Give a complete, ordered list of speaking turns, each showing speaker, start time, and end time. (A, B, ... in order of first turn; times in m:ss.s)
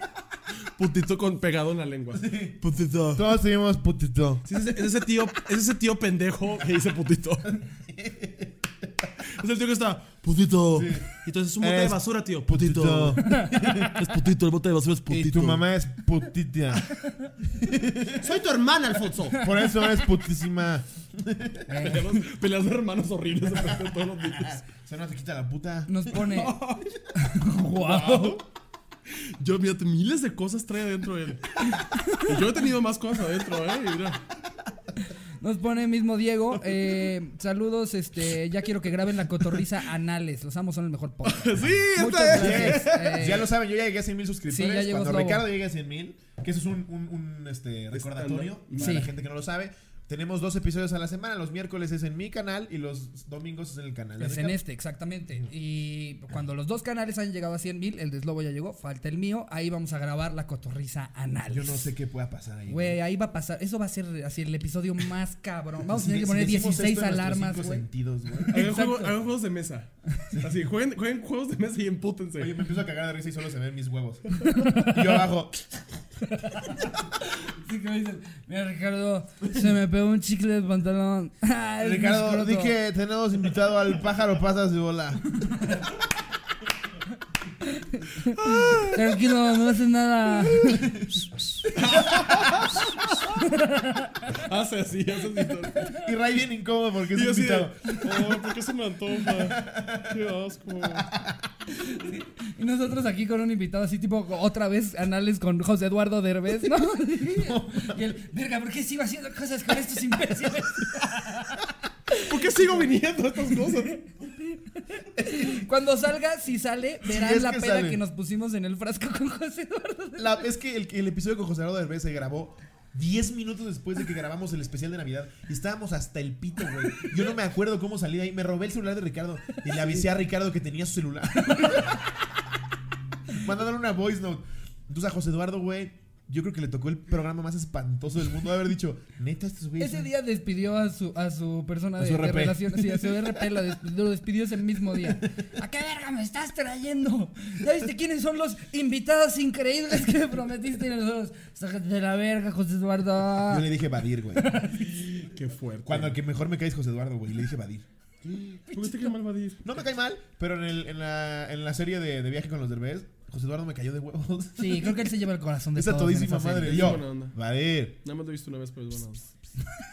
0:00.8-0:03.3 A
0:02.1-0:02.6 B
0:03.1-0:04.5 B
0:04.5-0:07.6 A
0:07.5-0:08.7 B
0:09.2-0:15.6 A
0:10.7-0:11.1 B
0:11.6-0:13.9 B
0:13.0-0:14.3 C
0:15.0-0:15.5 C
0:15.1-0:16.9 B
0:17.4-0:18.4 B
0:18.2-0:19.4 C
0:19.4-0:21.7 B
0:21.7-0:22.2 D
0:21.8-0:24.6 A
0:23.5-0:26.5 B
0:25.9-0:26.6 D
0:26.2-0:26.8 A
0:27.1-0:28.4 D
0:27.8-0:28.4 A
0:29.1-0:34.2 A
0:31.6-0:32.4 D
0:35.4-0:43.5 D
0:41.2-0:43.2 A
0:42.3-0:54.6 B
0:44.5-0:45.4 D
0:47.9-0:49.0 A
0:48.8-0:49.1 D
0:54.2-1:01.9 D
1:01.5-1:03.0 B
1:02.7-1:07.8 D
1:05.9-1:08.6 B
1:08.4-1:09.2 D
1:08.5-1:12.6 A
1:12.4-1:15.8 B
1:14.5-1:15.0 D
1:16.3-1:22.8 D
1:21.8-1:25.4 B
1:25.5-1:25.8 D
1:27.6-1:31.0 D
1:28.4-1:29.0 A
1:31.8-1:32.8 B
1:31.8-1:33.3 A
1:33.4-1:34.3 D
1:34.3-1:35.9 A
1:35.9-1:38.2 B
1:37.1-1:41.1 A
1:39.3-1:40.2 B
1:40.9-1:41.5 B
1:41.8-1:52.3 D
1:47.3-1:48.1 B
1:52.2-1:54.0 A
1:53.9-2:00.4 D
1:55.2-1:55.6 B
1:57.0-1:58.0 B
2:00.2-2:12.1 B
2:13.3-2:20.1 B
2:19.8-2:33.7 D
2:22.0-2:23.4 B
2:33.4-2:34.6 B
2:34.4-2:35.0 D
2:34.8-2:36.2 A
2:35.8-2:37.9 B
2:38.3-2:39.6 A
2:38.7-2:39.1 D
2:39.6-2:45.0 B
2:44.6-2:47.0 D
2:45.7-2:48.0 B
2:46.6-2:47.4 A
2:48.0-2:49.2 A